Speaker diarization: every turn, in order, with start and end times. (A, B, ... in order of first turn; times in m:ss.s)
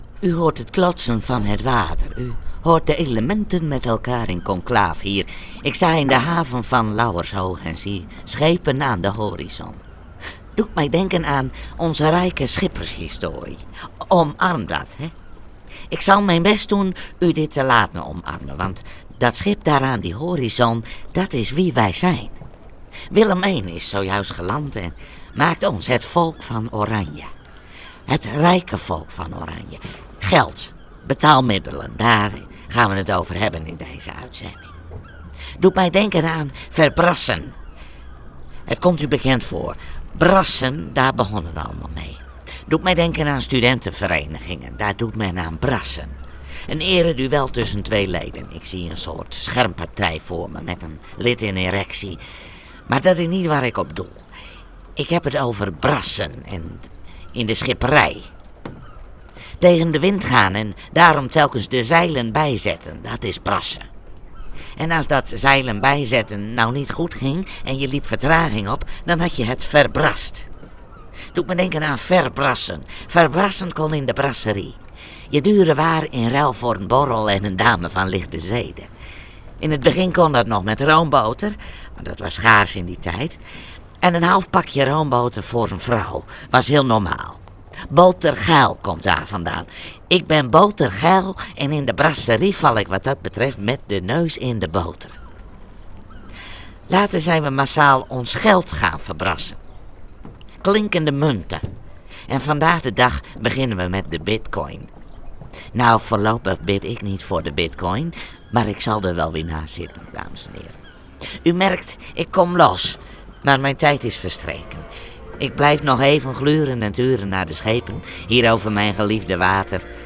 0:00.2-0:09.8 A
0:10.5-0:15.1 A
0:15.9-0:22.4 A
0:23.1-0:27.3 A
0:28.1-0:34.7 A
0:35.6-0:37.6 A
0:38.7-0:52.2 A
0:52.8-0:54.3 A
0:55.0-0:58.3 A
0:59.6-1:03.9 A
1:04.8-1:10.5 A
1:11.3-1:14.8 A
1:15.3-1:18.9 A
1:19.6-1:23.4 A
1:24.0-1:35.2 A
1:36.9-1:39.6 A
1:40.6-1:41.6 A
1:42.3-1:44.9 A
1:45.7-1:50.8 A
1:51.4-1:54.9 A
1:55.4-1:59.8 A